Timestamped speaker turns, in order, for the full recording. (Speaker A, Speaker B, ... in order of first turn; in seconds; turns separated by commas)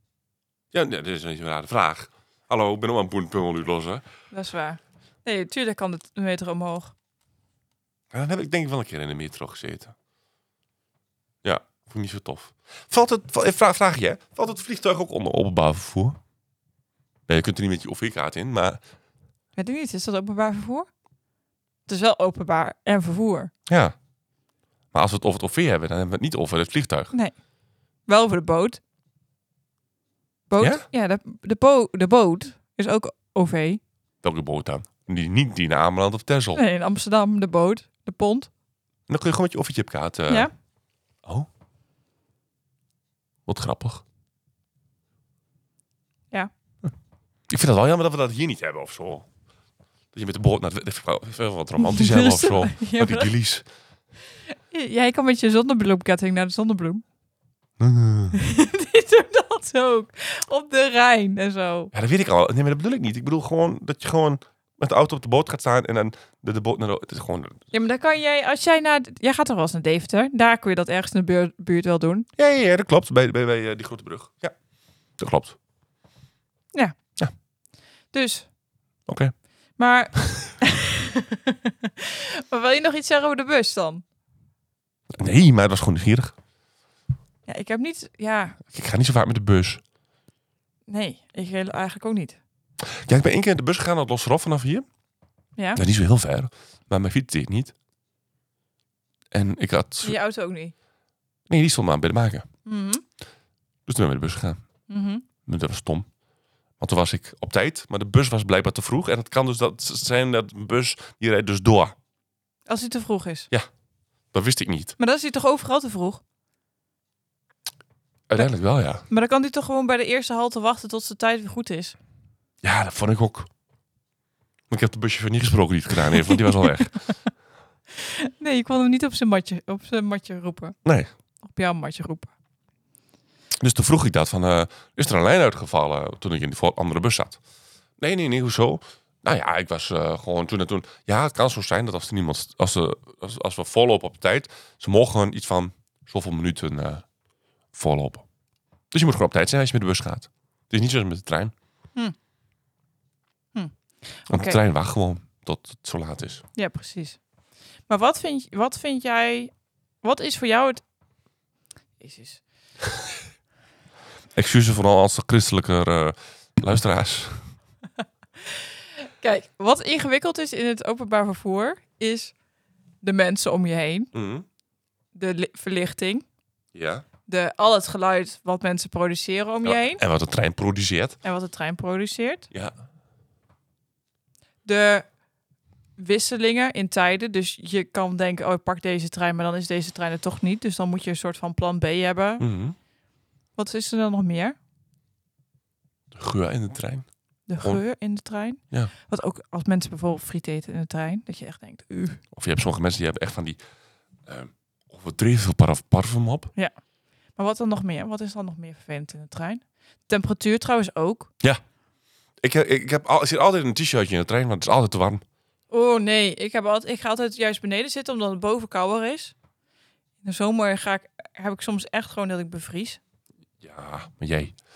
Speaker A: 0.7-4.0, Speaker B: 4.3-6.9, Speaker A: 8.1-9.9, Speaker A: 11.4-16.2, Speaker A: 17.3-18.8, Speaker B: 19.6-20.9, Speaker B: 21.9-23.5, Speaker A: 23.7-23.9, Speaker A: 24.9-27.1, Speaker B: 28.1-28.8, Speaker B: 30.5-33.8, Speaker A: 30.6-30.8, Speaker A: 34.2-36.6, Speaker B: 36.5-38.5, Speaker A: 39.1-40.5, Speaker A: 43.5-44.0, Speaker A: 47.5-49.3, Speaker A: 50.1-53.6, Speaker B: 51.8-53.3, Speaker B: 54.7-57.0, Speaker A: 57.8-58.4, Speaker B: 58.3-61.9, Speaker A: 61.9-67.6, Speaker B: 67.7-72.3, Speaker A: 72.4-74.5, Speaker A: 75.2-75.6, Speaker B: 78.1-78.5, Speaker A: 79.1-79.3, Speaker B: 79.8-84.0, Speaker A: 85.1-86.3, Speaker B: 87.5-88.6, Speaker A: 88.7-89.8, Speaker B: 90.9-92.4, Speaker A: 93.0-94.8, Speaker A: 95.7-97.7, Speaker A: 99.3-100.2, Speaker B: 100.0-100.7, Speaker A: 101.5-102.5, Speaker B: 102.6-103.0, Speaker A: 103.8-104.6, Speaker B: 104.9-105.2, Speaker A: 105.5-106.1, Speaker A: 106.8-112.0, Speaker B: 112.7-113.5, Speaker A: 114.3-115.0, Speaker B: 115.0-116.2, Speaker A: 118.3-119.0, Speaker B: 119.1-122.0, Speaker A: 122.6-123.5, Speaker A: 124.7-126.9, Speaker B: 126.1-126.9, Speaker B: 127.9-130.8, Speaker A: 130.8-131.1, Speaker B: 131.4-132.3, Speaker A: 133.6-137.4, Speaker A: 138.0-147.0, Speaker A: 147.7-148.2, Speaker A: 148.9-151.5, Speaker B: 153.5-154.6, Speaker A: 154.3-156.4, Speaker B: 156.6-157.2, Speaker B: 157.9-159.5, Speaker B: 160.0-160.8, Speaker B: 162.0-162.4, Speaker A: 164.3-167.4, Speaker B: 168.4-172.3, Speaker B: 173.0-174.1, Speaker A: 174.1-174.4, Speaker B: 175.1-176.2, Speaker A: 176.7-177.1, Speaker B: 177.3-180.0, Speaker A: 179.6-181.2, Speaker B: 181.2-182.5, Speaker B: 184.6-185.0, Speaker B: 186.0-192.4, Speaker A: 192.4-192.8, Speaker B: 193.6-194.6, Speaker A: 196.1-197.1, Speaker B: 197.5-202.2, Speaker A: 202.3-203.6, Speaker A: 204.2-206.5, Speaker B: 207.3-211.3, Speaker A: 212.4-215.2, Speaker B: 215.7-219.3, Speaker B: 220.2-223.0, Speaker A: 223.6-224.6